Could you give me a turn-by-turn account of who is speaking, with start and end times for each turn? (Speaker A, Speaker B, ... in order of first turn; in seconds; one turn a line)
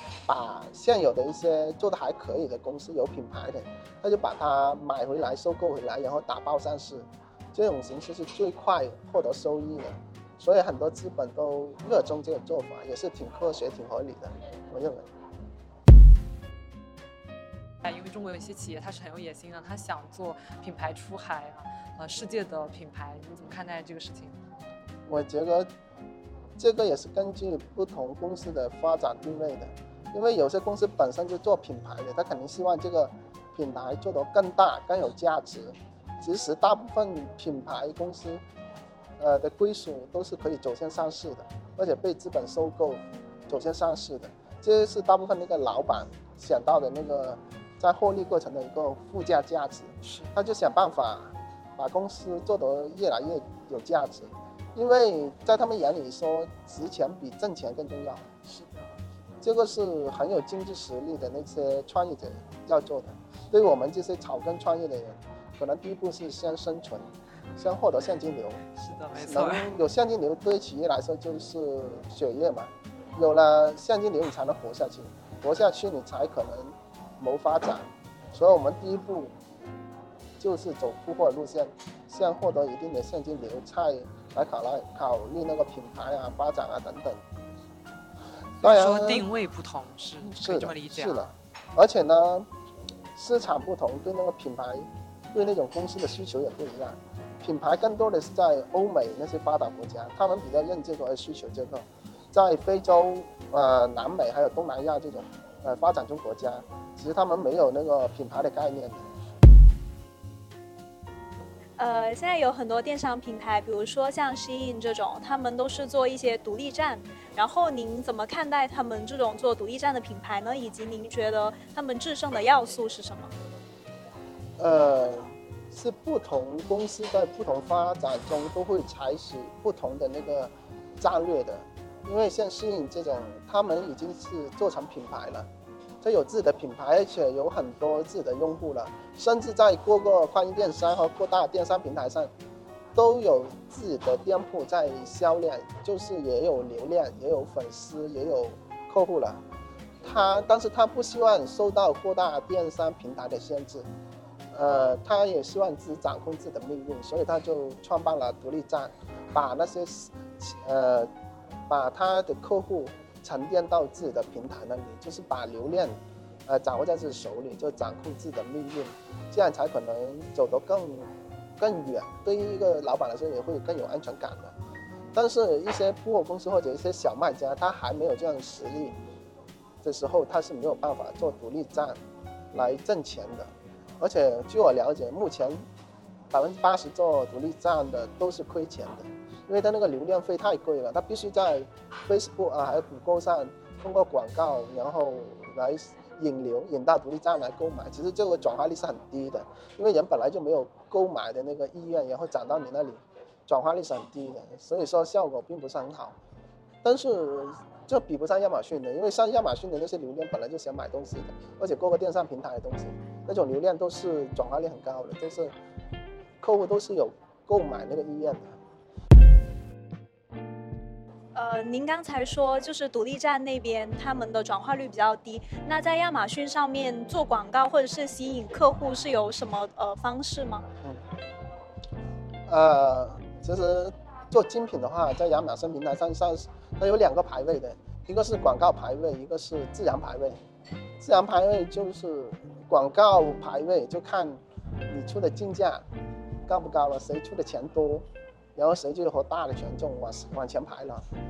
Speaker A: 0.3-15.1
Speaker B: 17.8-24.4
Speaker A: 25.1-25.7
Speaker A: 26.6-38.4
Speaker A: 39.2-58.3
Speaker B: 50.0-50.3
Speaker B: 58.4-59.0
Speaker A: 59.4-68.6
Speaker B: 68.7-69.7
Speaker A: 69.1-79.3
Speaker A: 80.4-87.2
Speaker B: 88.6-91.3
Speaker A: 88.6-89.2
Speaker A: 90.2-92.5
Speaker A: 93.1-109.1
Speaker C: 111.8-123.3
Speaker A: 124.6-135.5
Speaker A: 136.0-142.3
Speaker A: 142.9-149.4
Speaker A: 150.0-153.9
Speaker A: 154.5-161.1
Speaker A: 161.7-174.5
Speaker A: 175.1-179.0
Speaker A: 179.8-182.0
Speaker A: 182.5-185.6
Speaker A: 186.3-206.2
Speaker A: 206.8-215.5
Speaker A: 216.4-218.6
Speaker C: 221.3-230.7
Speaker A: 232.5-240.4
Speaker A: 241.0-245.8
Speaker A: 246.5-251.1